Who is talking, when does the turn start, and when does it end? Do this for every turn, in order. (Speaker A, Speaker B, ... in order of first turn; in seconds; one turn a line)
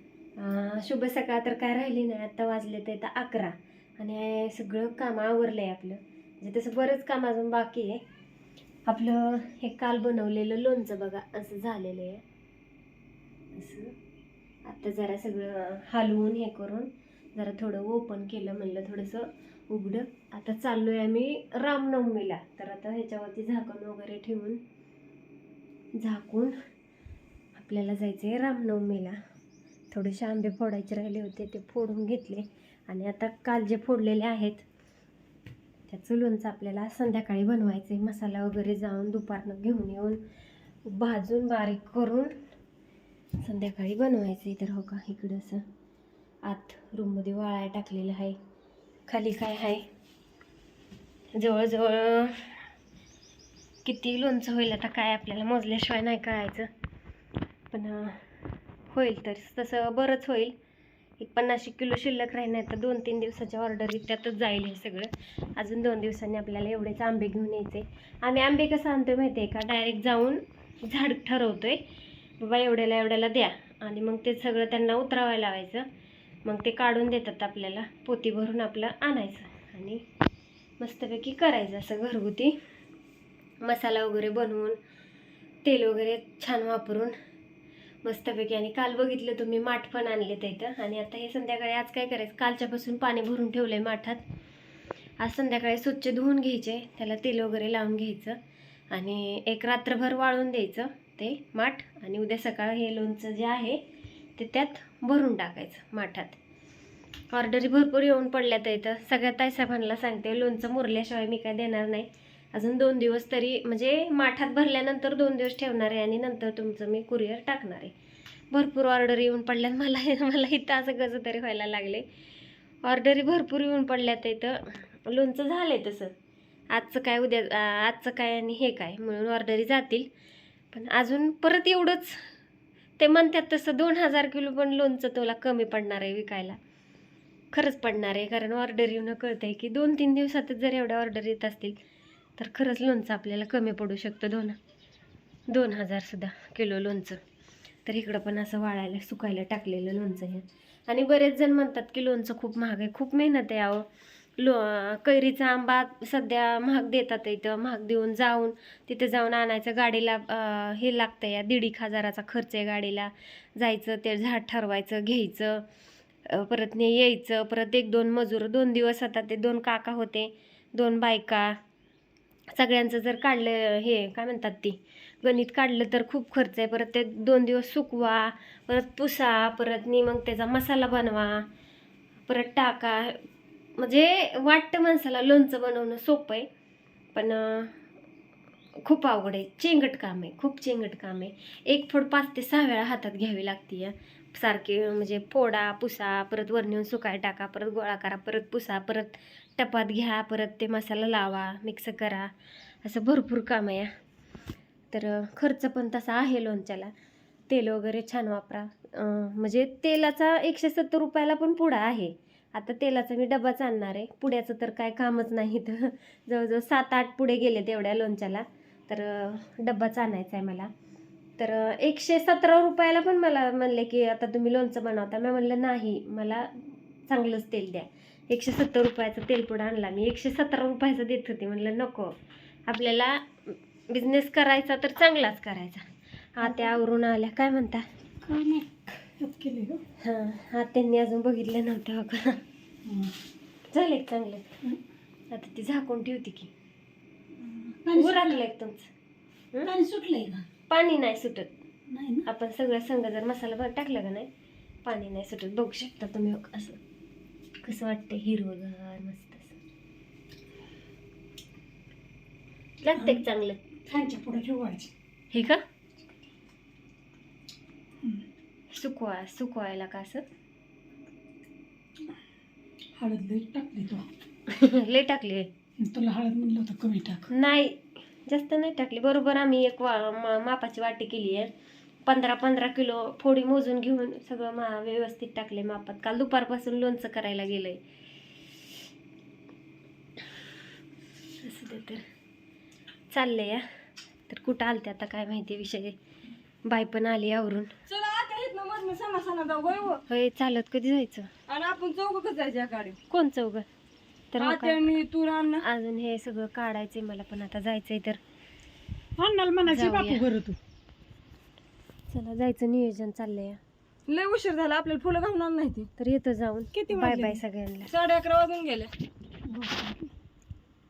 Speaker A: 0.4-8.0
Speaker A: 8.9-12.2
Speaker A: 13.5-13.9
Speaker A: 14.6-24.6
Speaker A: 26.0-26.6
Speaker A: 27.5-29.2
Speaker A: 29.9-34.6
Speaker A: 35.9-40.2
Speaker A: 40.8-42.3
Speaker A: 43.4-45.6
Speaker A: 46.4-48.4
Speaker A: 49.1-49.9
Speaker A: 51.3-52.6
Speaker A: 53.8-56.7
Speaker A: 57.7-58.2
Speaker A: 58.9-60.5
Speaker A: 61.2-71.8
Speaker A: 72.4-75.8
Speaker A: 76.4-80.0
Speaker A: 80.8-82.5
Speaker A: 83.6-84.8
Speaker A: 85.6-87.1
Speaker A: 88.0-94.2
Speaker A: 95.2-98.4
Speaker A: 98.9-103.8
Speaker A: 104.4-106.4
Speaker A: 107.3-117.9
Speaker A: 118.5-122.0
Speaker A: 122.8-126.1
Speaker A: 126.7-130.1
Speaker A: 130.7-132.2
Speaker A: 133.0-136.6
Speaker A: 137.5-141.8
Speaker A: 142.4-144.6
Speaker A: 145.5-147.2
Speaker A: 147.8-153.8
Speaker A: 154.4-165.6
Speaker A: 166.3-171.6
Speaker A: 172.5-181.5
Speaker A: 182.2-183.2
Speaker A: 183.8-186.5
Speaker A: 187.1-187.8
Speaker A: 188.8-202.3
Speaker A: 202.8-203.9
Speaker A: 204.9-206.9
Speaker A: 207.5-220.7
Speaker A: 221.4-232.1
Speaker A: 232.7-237.8
Speaker B: 236.4-236.8
Speaker B: 238.2-239.8
Speaker A: 240.0-242.4
Speaker B: 242.8-243.1
Speaker A: 243.7-244.4
Speaker A: 245.3-246.5
Speaker B: 247.4-248.4
Speaker A: 247.9-248.9
Speaker B: 249.6-250.4
Speaker A: 250.7-251.5
Speaker B: 251.9-252.2
Speaker A: 252.2-254.3
Speaker A: 254.8-256.8
Speaker A: 257.6-259.6
Speaker A: 262.8-263.6
Speaker B: 263.9-264.9
Speaker A: 265.3-265.6
Speaker A: 268.7-270.2
Speaker B: 273.0-274.1
Speaker A: 274.5-275.5
Speaker B: 275.8-277.3
Speaker A: 277.3-281.5
Speaker A: 282.1-287.8
Speaker A: 291.4-292.0
Speaker A: 293.1-293.6
Speaker A: 294.3-296.0
Speaker A: 296.6-297.7
Speaker C: 297.9-300.0
Speaker A: 300.1-301.3
Speaker C: 301.5-303.0
Speaker A: 303.1-303.6
Speaker A: 304.3-304.8
Speaker C: 304.4-305.6
Speaker A: 305.6-308.2
Speaker B: 309.2-310.6
Speaker A: 309.6-310.2
Speaker A: 312.1-313.6
Speaker C: 314.1-315.9
Speaker A: 316.0-317.9
Speaker B: 316.7-317.4
Speaker C: 317.9-318.9
Speaker B: 319.4-320.1